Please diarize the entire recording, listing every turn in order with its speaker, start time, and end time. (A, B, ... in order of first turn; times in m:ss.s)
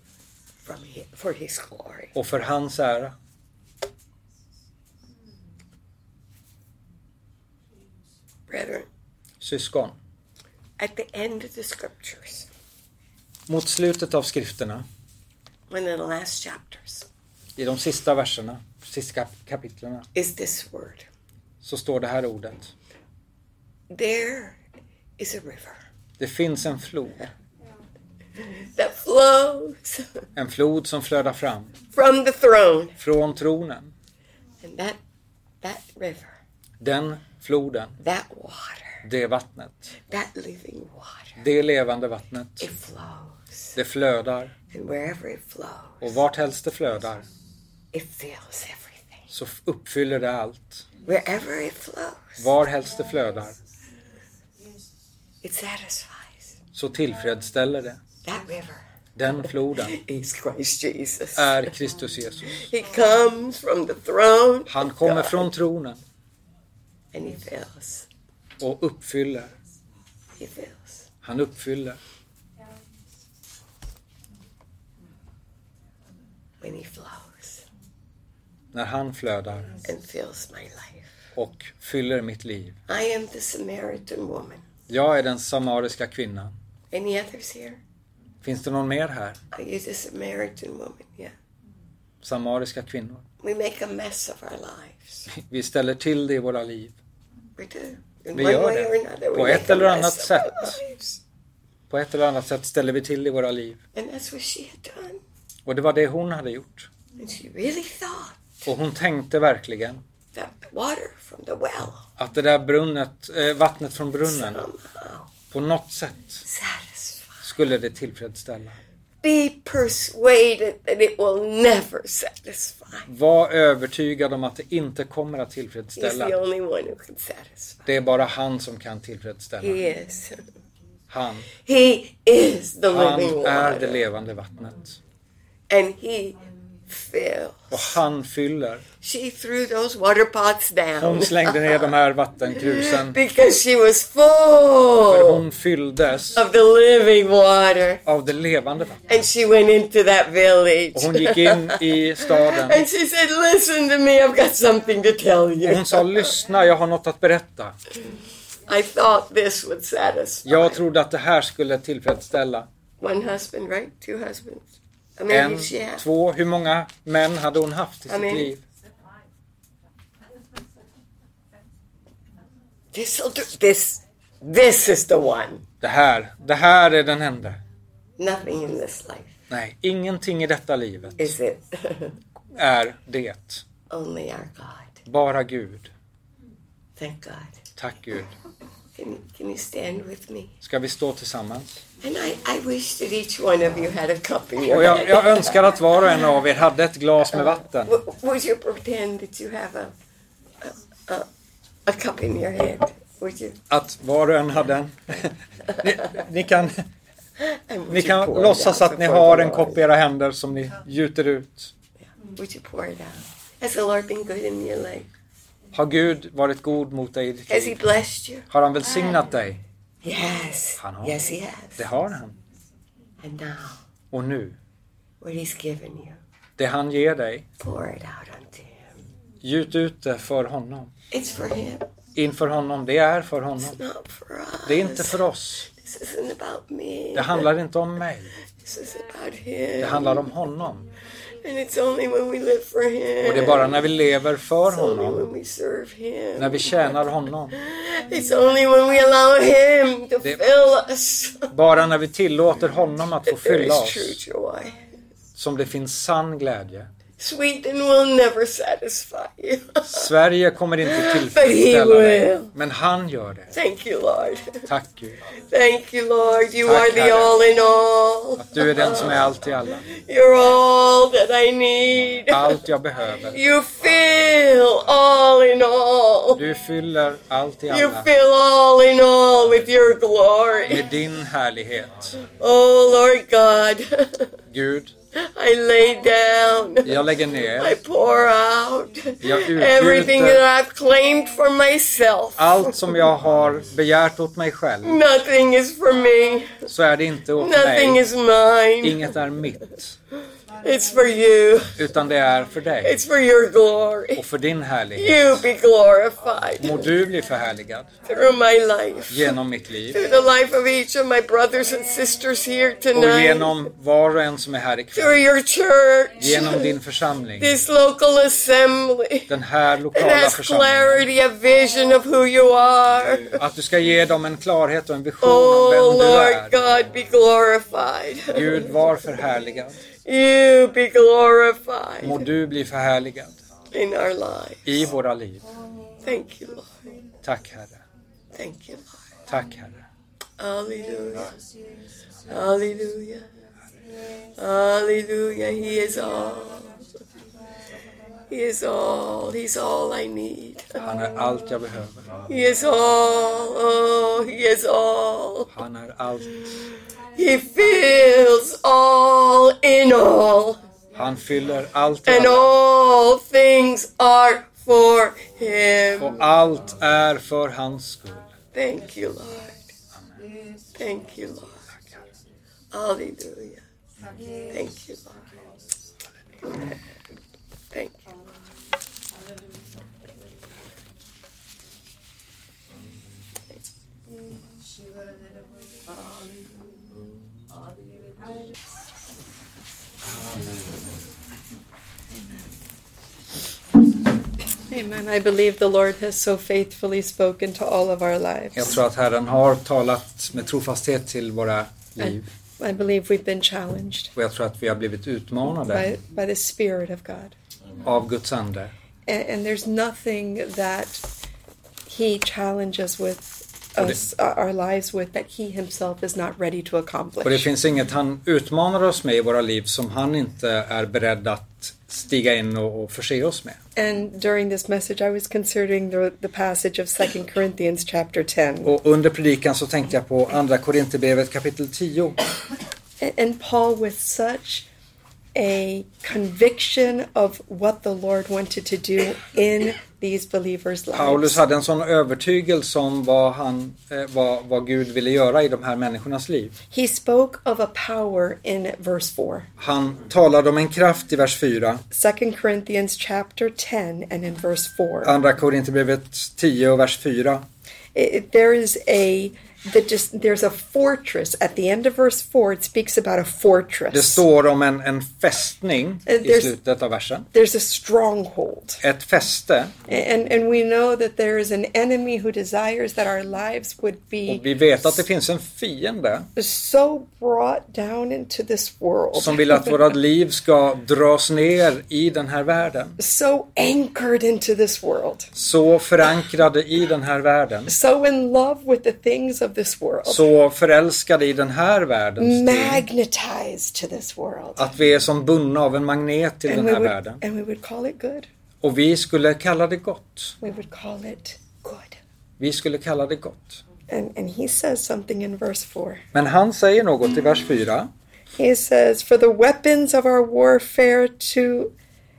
0:00.6-0:02.1 A
0:02.1-0:03.1 B
0:08.5-0:08.8 A
0:09.4-0:10.0 B
0:10.8-0:12.5 A
0:13.5-0:14.8 B
0:15.7-0:17.1 A
0:17.6-0:20.0 B
0:20.1-0:21.0 A
0:21.6-0:22.7 B
0:23.9-0:24.6 A
0:25.2-0:25.8 A
0:26.2-0:27.3 B
0:28.4-0:30.2 A
0:30.4-0:31.7 B
0:31.9-0:33.0 A
0:33.0-0:33.9 B
0:34.6-0:35.0 A
0:35.6-0:36.3 A
0:36.8-0:37.9 B
0:38.0-0:39.0 A
0:39.0-0:39.9 B
0:40.1-0:41.4 A
0:41.4-0:42.7 B
0:42.6-0:43.8 A
0:43.8-0:44.5 B
0:44.7-0:46.2 A
0:46.0-0:47.2 B
0:47.9-0:49.2 A
0:49.3-0:50.9 B
0:51.0-0:52.4 A
0:52.4-0:53.6 B
0:55.4-0:56.6 A
0:56.7-0:58.0 B
0:58.2-0:58.8 A
0:59.2-1:00.0 B
0:59.8-1:01.7 A
1:01.4-1:02.7 B
1:02.5-1:05.5 A
1:04.7-1:06.0 B
1:07.1-1:08.1 A
1:08.6-1:09.5 B
1:10.4-1:11.1 A
1:11.2-1:12.0 B
1:16.6-1:17.6 A
1:18.7-1:19.7 B
1:19.8-1:21.1 A
1:21.4-1:22.8 B
1:22.9-1:24.6 A
1:24.9-1:26.5 B
1:26.9-1:27.8 A
1:28.4-1:29.4 B
1:29.5-1:31.3 A
1:32.2-1:33.2 B
1:33.4-1:35.3 A
1:35.3-1:37.0 B
1:37.6-1:41.2 A
1:38.3-1:40.8 B
1:41.9-1:43.8 B
1:43.9-1:45.2 A
1:45.6-1:46.9 B
1:47.2-1:48.6 A
1:48.6-1:50.0 B
1:50.3-1:52.0 A
1:52.2-1:54.6 B
1:54.3-1:55.3 A
1:55.5-1:56.4 B
1:56.4-1:57.5 A
1:57.4-1:58.8 B
1:59.2-2:03.1 A
2:03.1-2:06.3 B
2:06.0-2:07.9 A
2:07.9-2:09.8 B
2:09.6-2:10.4 A
2:11.1-2:11.5 B
2:11.6-2:14.0 A
2:12.9-2:15.0 B
2:15.7-2:17.9 A
2:17.7-2:18.8 B
2:19.0-2:21.9 A
2:21.0-2:23.2 B
2:22.6-2:25.4 A
2:25.1-2:26.4 B
2:26.3-2:28.0 A
2:28.0-2:29.1 B
2:29.1-2:36.2 A
2:30.9-2:32.9 B
2:35.6-2:37.8 B
2:38.7-2:40.8 A
2:40.4-2:42.7 B
2:43.0-2:44.6 A
2:45.2-2:46.0 A
2:45.3-2:48.6 B
2:48.1-2:48.5 A
2:52.9-2:55.6 A
2:55.8-2:57.6 B
2:58.2-2:59.4 A
2:59.5-3:01.4 B
3:01.2-3:02.2 A
3:02.5-3:03.6 B
3:03.9-3:05.0 A
3:05.0-3:05.9 B
3:07.0-3:07.6 A
3:07.8-3:08.3 B
3:09.0-3:10.5 A
3:10.6-3:11.8 B
3:12.0-3:15.6 A
3:14.6-3:18.0 B
3:17.8-3:19.9 A
3:20.6-3:21.2 A
3:21.8-3:23.6 A
3:23.7-3:26.8 B
3:27.4-3:29.8 A
3:27.9-3:31.7 B
3:32.2-3:35.1 A
3:35.7-3:37.8 B
3:37.5-3:38.5 A
3:38.5-3:39.6 B
3:40.0-3:41.8 A
3:40.8-3:41.2 B
3:41.8-3:42.4 B
3:43.2-3:43.8 A
3:44.1-3:44.6 B
3:45.2-3:46.2 A
3:46.6-3:47.4 B
3:47.6-3:49.0 A
3:49.4-3:50.9 B
3:51.1-3:51.9 A
3:52.1-3:53.8 B
3:53.6-3:57.5 A
3:54.6-3:55.7 B
3:57.1-3:58.3 B
3:58.6-4:00.3 A
3:59.8-4:00.9 B
4:01.4-4:03.8 A
4:03.2-4:05.3 B
4:04.7-4:06.9 A
4:06.4-4:07.6 B
4:07.5-4:11.5 A
4:11.5-4:14.2 B
4:13.3-4:14.8 A
4:15.4-4:16.9 B
4:17.2-4:20.1 A
4:19.8-4:23.5 B
4:20.8-4:22.5 A
4:23.5-4:24.7 A
4:24.7-4:25.2 B
4:25.5-4:32.6 A
4:26.6-4:27.4 B
4:28.4-4:29.8 B
4:32.3-4:33.4 B
4:33.3-4:36.4 A
4:36.3-4:38.1 B
4:37.7-4:40.8 A
4:40.7-4:42.2 B
4:42.2-4:44.4 A
4:44.5-4:44.9 B
4:45.1-4:47.1 A
4:46.8-4:47.8 B
4:47.6-4:52.9 A
4:49.2-4:50.4 B
4:52.4-4:55.0 B
4:54.8-4:56.6 A
4:56.7-4:58.0 B
4:57.4-4:59.1 A
4:58.8-5:00.0 B
5:00.6-5:01.8 A
5:01.8-5:03.0 B
5:02.8-5:04.2 A
5:04.2-5:05.4 B
5:05.0-5:06.9 A
5:06.6-5:07.9 B
5:08.0-5:09.4 A
5:09.1-5:10.0 B
5:09.9-5:13.6 A
5:12.9-5:15.2 B
5:14.9-5:16.7 A
5:16.2-5:17.5 B
5:17.4-5:19.3 A
5:19.3-5:21.1 B
5:19.9-5:23.4 A
5:23.4-5:26.6 B
5:25.2-5:28.8 A
5:28.3-5:29.8 B
5:30.0-5:32.3 A
5:32.0-5:33.4 B
5:33.7-5:34.9 A
5:34.6-5:35.4 B
5:36.0-5:36.8 A
5:37.2-5:37.8 B
5:38.3-5:39.0 A
5:39.3-5:39.8 B
5:40.4-5:41.3 A
5:42.3-5:43.3 A
5:44.4-5:46.8 A
5:48.3-5:50.8 A
5:50.8-5:52.2 B
5:52.3-5:55.5 A
5:55.5-5:56.3 B
5:57.2-6:00.6 A
6:00.9-6:02.5 B
6:02.1-6:06.2 A
6:06.0-6:08.3 B
6:08.5-6:09.7 A
6:10.7-6:11.6 A
6:12.7-6:13.6 A
6:14.5-6:15.2 A
6:17.7-6:18.3 A
6:25.9-6:26.4 A
6:34.7-6:38.8 C
6:38.5-6:42.3 B
6:42.0-6:44.1 C
6:44.2-6:45.9 B
6:45.6-6:47.3 C
6:47.8-6:48.7 B
6:49.0-6:51.0 C
6:51.9-6:57.5 C
6:57.2-7:03.6 B
7:03.8-7:08.7 C
7:08.6-7:12.2 B
7:13.0-7:14.7 C
7:15.3-7:21.4 C
7:20.9-7:26.6 B
7:26.7-7:29.5 C
7:29.6-7:31.8 B
7:31.9-7:35.1 C
7:35.0-7:37.4 B
7:37.9-7:44.2 C
7:43.9-7:47.3 B
7:46.0-7:46.5 C
7:47.3-7:48.8 C
7:48.8-7:49.8 B
7:49.9-7:54.4 C
7:54.2-7:56.3 B
7:56.4-7:59.8 C
7:59.1-8:03.0 B
8:03.0-8:05.3 C
8:05.3-8:07.7 B
8:07.7-8:10.3 C
8:10.0-8:12.8 B
8:12.2-8:14.7 C
8:14.6-8:17.2 B
8:16.5-8:18.3 C
8:18.6-8:20.4 B
8:20.4-8:22.0 C
8:22.4-8:23.6 B
8:23.9-8:26.0 C
8:26.1-8:27.9 B
8:28.4-8:31.7 C